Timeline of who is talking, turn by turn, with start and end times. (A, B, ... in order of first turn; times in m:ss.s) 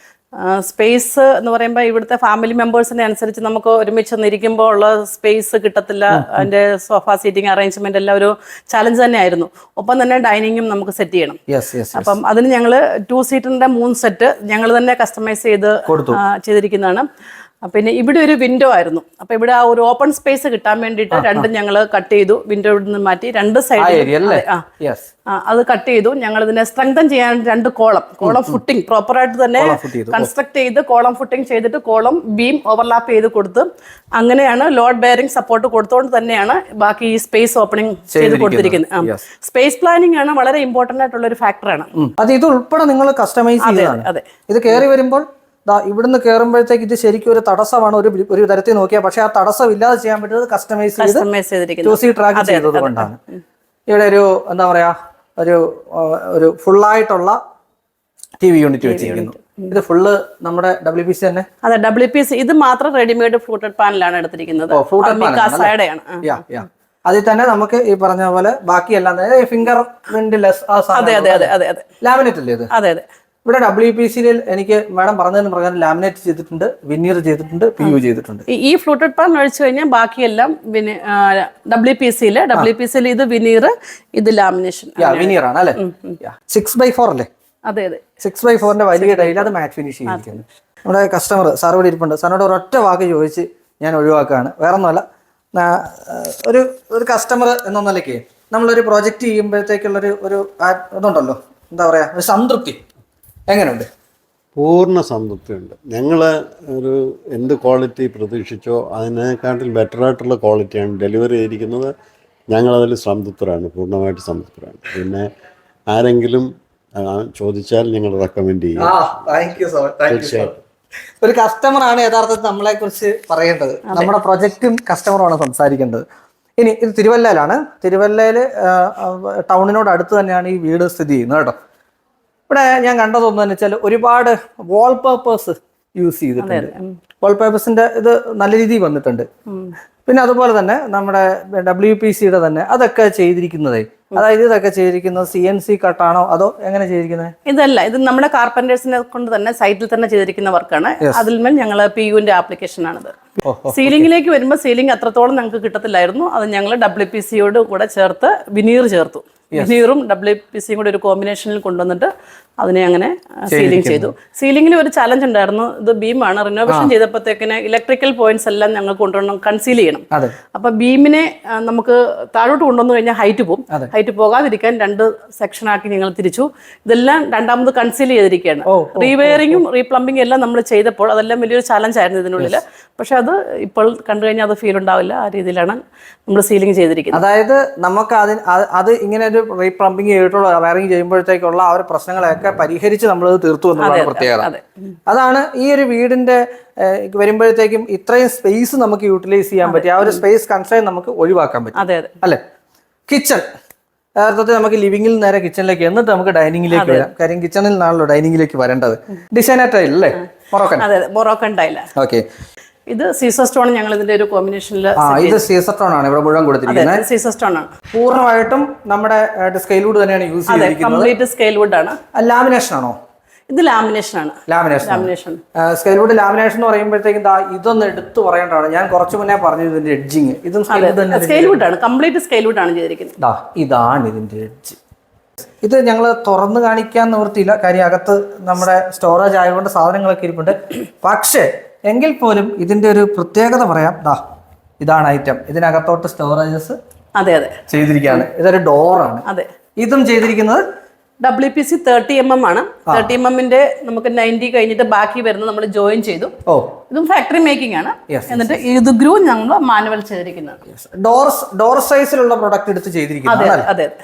0:00.3-0:11.4 A
0:06.1-0:06.4 B
0:11.5-0:12.1 B
0:11.9-0:17.1 A
0:15.8-0:16.2 B
0:17.6-0:24.6 A
0:21.1-0:21.5 B
0:23.8-0:25.0 B
0:25.3-0:41.9 A
0:28.2-0:28.6 B
0:29.6-0:30.3 B
0:38.1-0:39.2 B
0:41.9-0:51.2 B
0:43.6-0:44.2 A
0:51.0-0:53.1 A
0:51.8-0:53.2 B
0:53.9-0:57.4 B
0:58.4-1:01.5 B
0:58.8-0:59.7 A
1:01.6-1:06.2 A
1:04.7-1:12.7 B
1:10.9-1:11.8 A
1:12.7-1:13.0 A
1:13.4-1:18.4 B
1:18.5-1:26.2 A
1:25.0-1:27.3 B
1:27.7-1:28.0 A
1:28.2-1:42.8 B
1:29.0-1:29.5 A
1:30.1-1:30.3 A
1:43.5-1:43.9 B
1:44.5-1:51.9 C
1:52.5-1:55.3 C
1:55.9-1:59.5 C
1:58.8-2:00.5 B
2:00.1-2:00.6 C
2:01.2-2:06.0 B
2:06.6-2:11.6 B
2:12.5-2:19.3 B
2:16.4-2:16.9 A
2:19.5-2:19.7 A
2:20.1-2:27.3 B
2:27.4-2:33.1 A
2:33.4-2:34.1 B
2:33.7-3:07.2 A
2:43.5-2:44.1 B
2:50.1-2:50.4 B
2:58.7-2:59.6 B
3:07.1-3:14.5 B
3:13.8-3:14.6 A
3:15.1-3:22.4 B
3:19.6-3:20.2 A
3:21.8-3:22.1 A
3:23.1-3:23.4 B
3:24.2-3:30.8 B
3:26.7-3:27.1 A
3:30.8-3:31.9 A
3:32.0-3:32.2 B
3:32.9-3:35.4 A
3:35.0-3:37.0 B
3:36.7-3:37.7 A
3:37.9-3:41.1 B
3:40.5-3:42.0 A
3:42.1-3:43.0 B
3:43.5-3:45.4 A
3:44.5-3:51.6 B
3:50.7-3:53.1 A
3:53.2-3:54.8 B
3:55.6-4:04.2 B
4:04.8-4:06.8 B
4:07.1-4:07.6 A
4:07.7-4:09.2 B
4:09.8-4:10.6 B
4:11.2-4:16.3 A
4:12.9-4:13.1 B
4:16.5-4:16.8 B
4:16.9-4:20.6 A
4:18.1-4:18.6 B
4:20.7-4:23.7 B
4:23.3-4:23.9 A